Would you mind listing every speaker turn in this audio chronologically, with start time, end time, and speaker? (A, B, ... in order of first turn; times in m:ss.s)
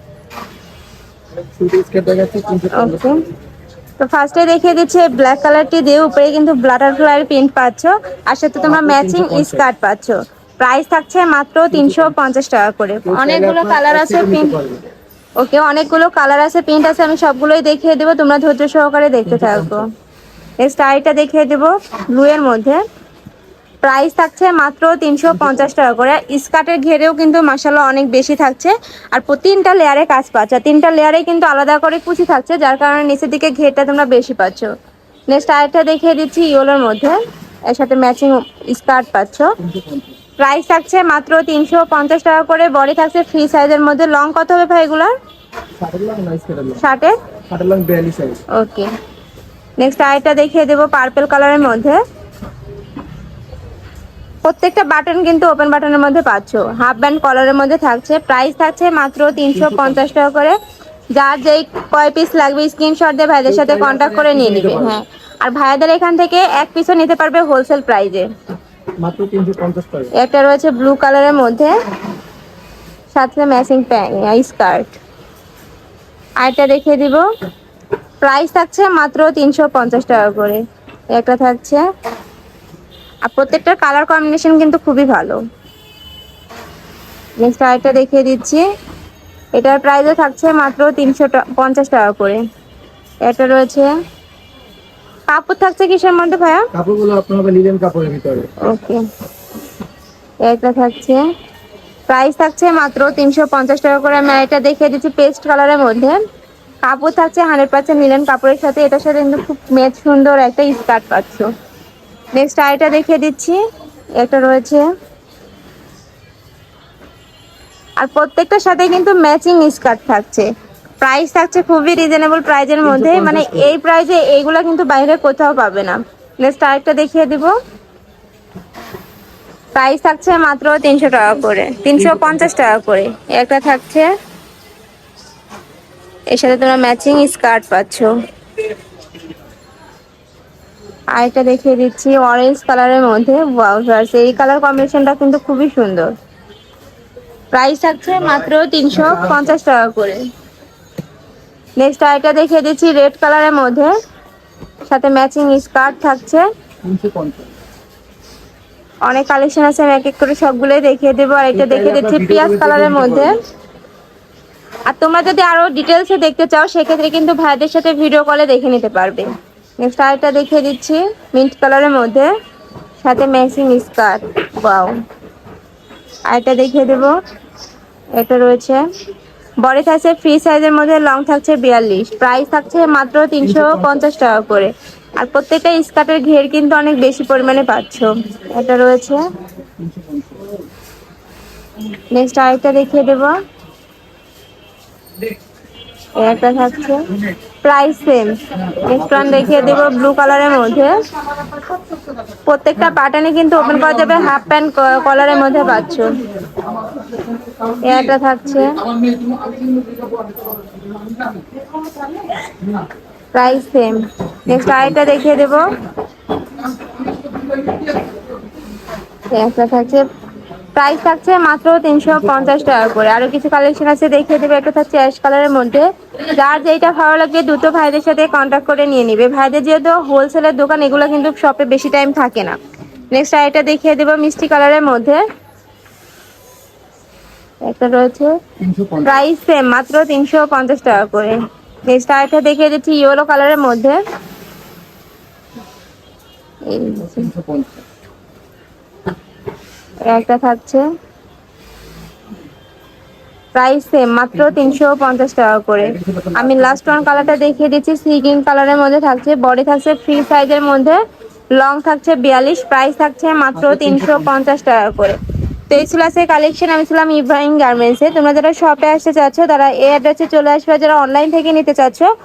0:01.4-0:03.3 A
0:02.7-0:03.3 B
0:04.0-0:14.6 B
0:08.6-0:09.7 A
0:11.7-0:12.2 A
0:13.0-0:14.8 A
0:15.4-0:19.9 B
0:19.3-0:19.8 A
0:20.6-0:22.8 B
0:23.8-0:34.7 B
0:35.3-0:37.2 B
0:37.7-0:39.5 B
0:39.6-0:40.2 A
0:40.4-0:45.1 B
0:45.8-0:46.8 A
0:46.8-0:47.2 B
0:47.5-0:48.4 A
0:48.5-0:48.9 B
0:49.8-0:52.0 B
0:54.4-1:00.6 B
0:59.5-1:00.0 A
1:01.1-1:08.3 B
1:03.5-1:05.0 A
1:09.0-1:10.1 A
1:10.1-1:11.7 B
1:13.2-1:15.0 B
1:16.4-1:17.2 B
1:18.2-1:21.8 B
1:23.2-1:25.4 B
1:27.4-1:28.6 B
1:29.6-1:32.4 B
1:33.2-1:33.9 B
1:35.3-1:36.7 B
1:36.7-1:38.5 A
1:38.6-1:39.0 B
1:40.4-1:41.2 B
1:42.1-1:46.2 B
1:46.8-1:51.5 B
1:52.4-1:53.6 B
1:54.2-1:54.9 B
1:58.0-2:00.5 B
2:01.0-2:07.5 B
2:02.8-2:03.8 A
2:09.8-2:14.1 B
2:12.0-2:12.5 A
2:16.3-2:18.2 B
2:21.1-2:26.1 B
2:27.5-2:30.3 B
2:29.0-2:29.5 A
2:31.8-2:33.9 B
2:34.9-2:36.5 B
2:36.8-2:37.6 A
2:39.0-2:43.4 B
2:41.5-2:43.4 A
2:44.9-2:49.3 B
2:49.8-2:52.3 B
2:53.0-2:54.9 B
2:56.3-2:57.1 B
2:58.2-2:58.8 B
2:59.6-3:09.3 B
3:03.4-3:04.1 A
3:09.8-3:10.6 A
3:12.1-3:13.3 B
3:16.2-3:17.1 B
3:17.6-3:21.0 B
3:18.7-3:19.9 A
3:22.5-3:26.2 B
3:26.6-3:27.9 A
3:27.8-3:28.8 B
3:29.0-3:31.5 A
3:33.3-3:35.8 B
3:34.5-3:35.3 A
3:36.7-3:38.2 A
3:39.3-3:40.1 B
3:40.7-3:52.6 B
3:53.1-3:55.2 B
3:57.6-3:58.4 B
3:58.6-3:59.2 A
3:59.0-4:04.0 B
4:06.7-4:07.3 B
4:07.0-4:07.8 A
4:10.0-4:10.8 B
4:13.6-4:21.0 B
4:14.4-4:14.7 A
4:15.8-4:17.6 A
4:21.6-4:32.1 B
4:23.6-4:24.3 A